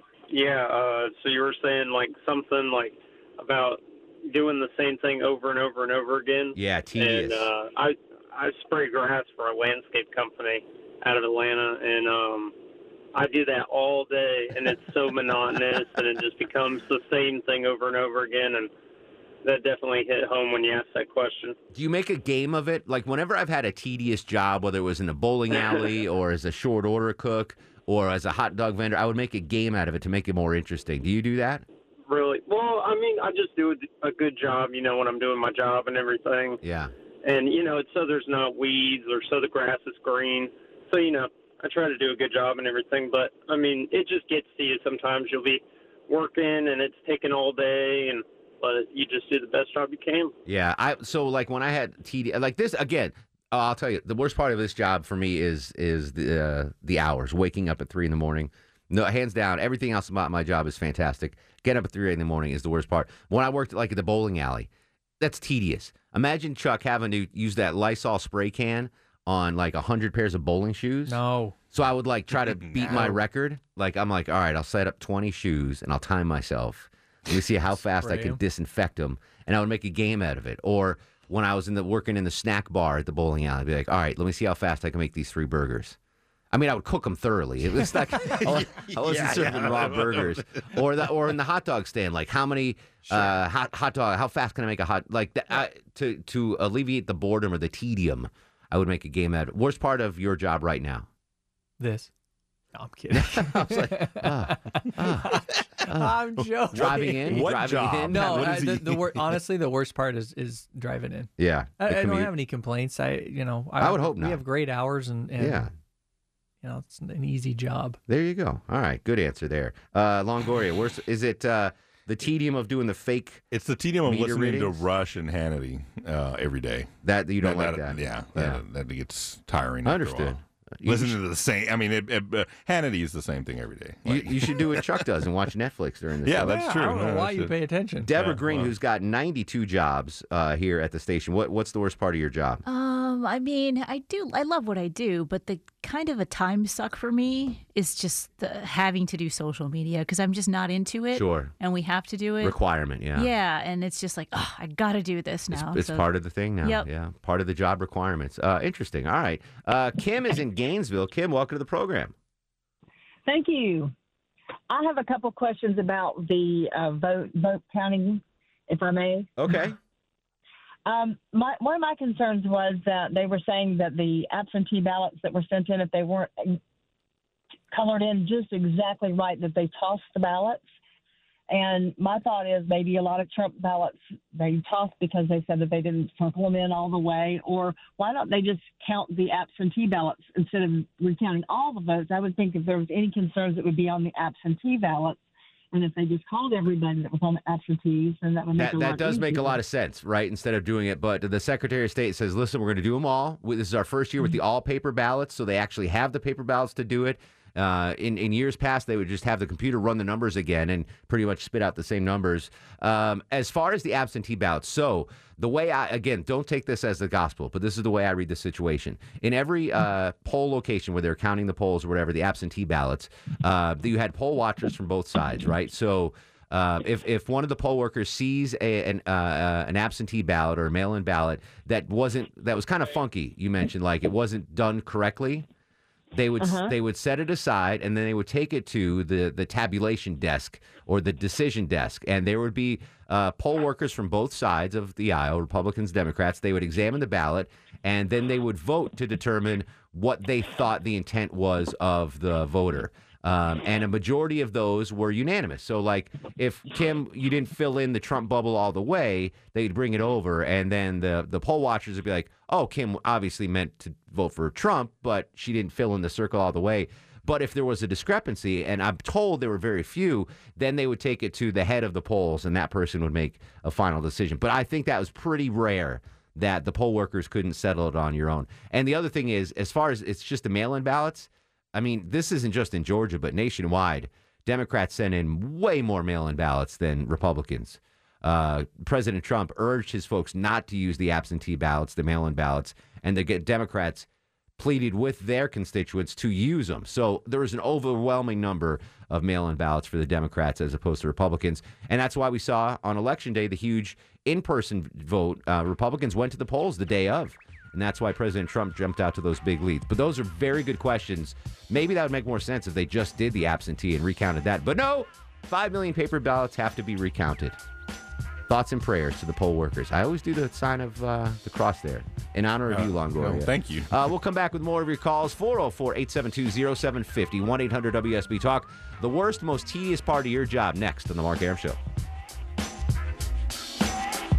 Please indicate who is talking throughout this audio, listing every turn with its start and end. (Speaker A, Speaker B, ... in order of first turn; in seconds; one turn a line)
Speaker A: 0.3-12.5
Speaker B: 6.5-7.5
Speaker A: 13.1-18.7
Speaker A: 19.4-21.6
Speaker B: 21.7-31.6
Speaker A: 32.1-36.6
Speaker B: 36.6-36.9
Speaker A: 37.2-50.4
Speaker B: 50.5-64.7
Speaker B: 65.2-71.2
Speaker C: 71.0-71.5
Speaker B: 71.7-86.0
Speaker D: 72.5-73.1
Speaker C: 77.8-78.4
Speaker B: 86.5-101.1
Speaker D: 87.8-91.1
Speaker D: 93.0-93.4
Speaker C: 101.8-102.1
Speaker C: 102.7-104.5
Speaker B: 103.1-105.4
Speaker C: 105.2-107.5
Speaker B: 105.9-106.2
Speaker B: 106.7-108.5
Speaker D: 106.7-109.4
Speaker C: 108.1-115.6
Speaker B: 111.4-112.3
Speaker B: 113.8-114.4
Speaker B: 115.4-115.7
Speaker C: 116.6-118.0
Speaker B: 118.1-123.4
Speaker D: 123.5-135.0
Speaker B: 124.0-124.8
Speaker B: 127.0-128.6
Speaker B: 129.8-131.2
Speaker B: 134.1-136.6
Speaker D: 136.2-137.5
Speaker C: 136.4-138.1
Speaker B: 138.0-142.6
Speaker D: 138.1-138.7
Speaker E: 142.7-152.6
Speaker B: 151.1-151.5
Speaker B: 152.4-153.3
Speaker E: 153.2-156.1
Speaker B: 155.5-162.1
Speaker E: 156.6-156.9
Speaker F: 163.2-163.9
Speaker F: 164.7-169.3
Speaker B: 169.4-169.8
Speaker F: 170.8-176.6
Speaker F: 177.7-180.6
Speaker F: 181.5-195.2
Speaker F: 195.7-199.6
Speaker B: 198.6-235.4
Speaker B: 236.1-294.1
Speaker F: 236.4-236.7
Speaker B: 294.6-317.6
Speaker B: 318.5-331.8
Speaker D: 322.7-323.9